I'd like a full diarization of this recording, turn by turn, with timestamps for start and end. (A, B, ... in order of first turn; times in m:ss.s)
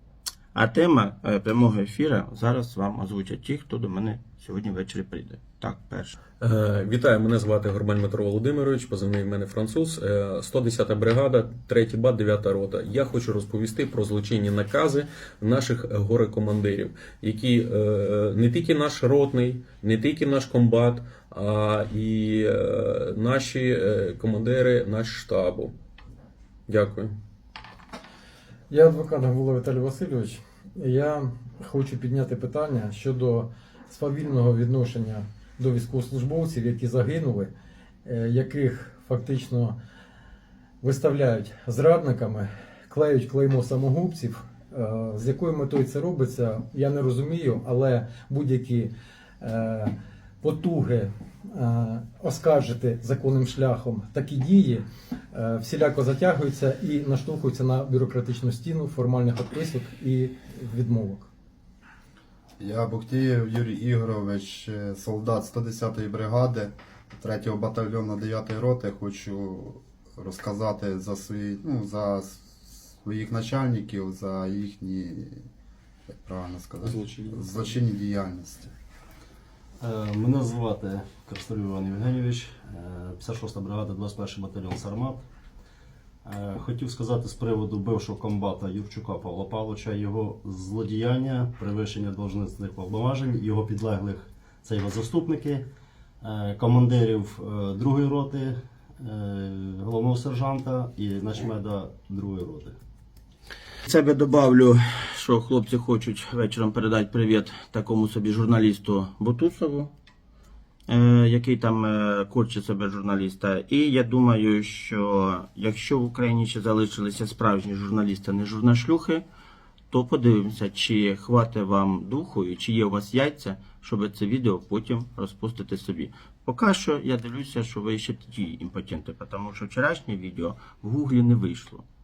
0:00.5-0:06.2 A
0:06.4-0:25.7 B
0:26.7-0:27.1 B
0:28.7-0:37.5 C
0:38.0-0:39.8 C
0:40.8-1:01.3 C
1:02.6-1:15.4 D
1:16.2-1:18.7 D
1:16.9-1:17.5 B
1:19.8-1:25.2 E
1:26.2-1:35.6 E
1:36.2-1:42.8 E
1:43.8-1:49.9 A
1:50.9-1:59.2 A
1:59.9-2:11.8 A